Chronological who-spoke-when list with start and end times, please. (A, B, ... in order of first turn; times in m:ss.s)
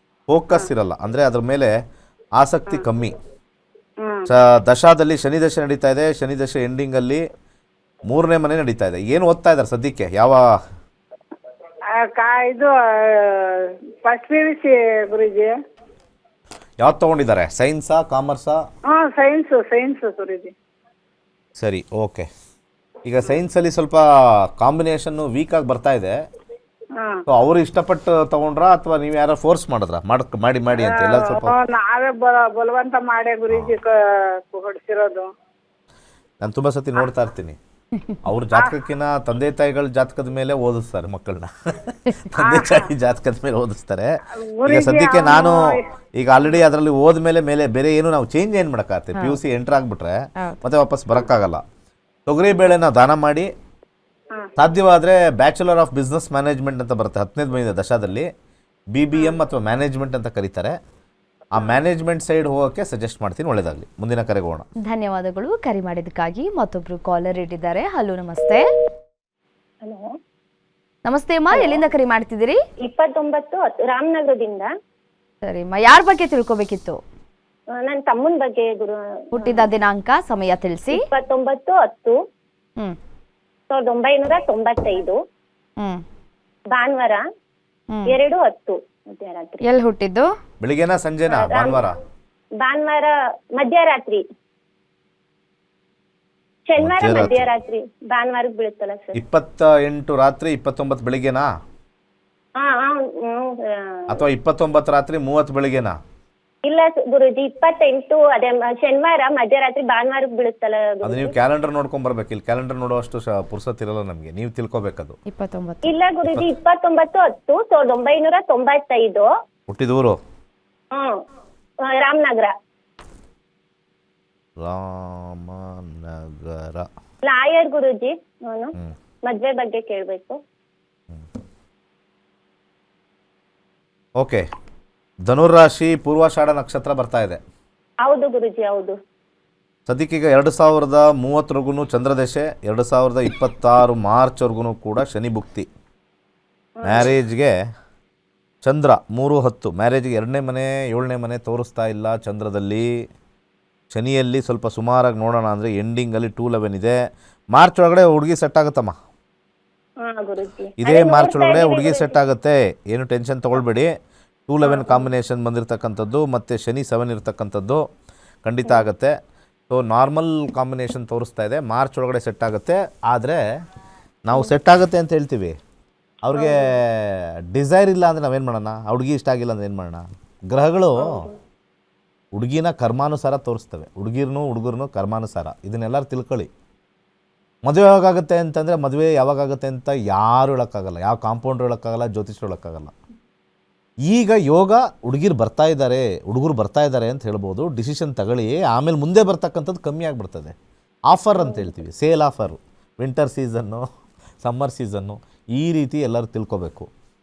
0:00.3-0:01.7 A
0:02.4-0:03.1 A
0:04.0-0:04.3 B
0:04.3-0:07.2 A
0:08.1-0:10.4 A
0:11.9-0:15.5 B
0:16.8-0:18.6 A
0:18.9-0:20.5 B
0:21.6-0:22.3 A
0:23.0-0:24.0 A
0:24.6-0:26.1 A
0:27.0-0:27.2 B
0:27.3-0:31.5 A
0:30.8-0:35.3 B
0:36.4-0:37.6 A
0:38.2-0:44.1 A
0:42.4-0:42.9 B
0:44.3-0:45.8 B
0:44.6-0:51.6 A
0:52.3-0:53.5 A
0:54.6-0:58.3 A
0:58.9-1:00.8 A
1:01.5-1:04.7 A
1:04.8-1:08.6 C
1:11.0-1:12.6 C
1:11.5-1:11.8 D
1:12.8-1:14.7 D
1:15.4-1:17.0 C
1:17.8-1:19.6 D
1:19.3-1:21.0 C
1:20.9-1:22.2 D
1:23.7-1:25.2 D
1:26.7-1:27.2 D
1:27.9-1:28.2 C
1:28.1-1:29.6 D
1:29.6-1:30.3 C
1:30.6-1:31.9 A
1:31.3-1:31.8 D
1:32.6-1:34.2 D
1:36.7-1:39.2 D
1:36.8-1:37.5 A
1:39.1-1:41.5 A
1:42.6-1:44.2 D
1:44.1-1:46.0 A
1:46.6-1:51.4 D
1:51.0-1:55.2 A
1:55.3-1:56.0 C
1:55.8-1:59.3 D
1:59.7-2:00.2 A
2:02.0-2:02.5 D
2:04.6-2:06.9 A
2:07.3-2:08.7 D
2:09.3-2:10.4 D
2:15.3-2:17.4 A
2:18.0-2:19.0 D
2:19.9-2:25.7 A
2:26.8-2:27.0 D
2:26.8-2:27.5 A
2:28.6-2:32.8 A
2:33.9-2:37.0 A
2:37.5-2:39.0 A
2:40.0-2:42.1 D
2:40.8-2:43.9 A
2:44.5-2:47.8 A
2:44.6-2:45.1 D
2:48.4-2:49.1 A
2:49.7-2:53.4 A
2:54.2-2:55.5 A
2:56.2-3:01.2 A
2:56.3-2:56.6 D
3:01.0-3:01.3 D
3:02.3-3:06.5 A
3:07.6-3:12.9 A
3:14.1-3:20.5 A
3:21.1-3:23.8 A
3:21.4-3:21.7 D
3:24.4-3:26.9 A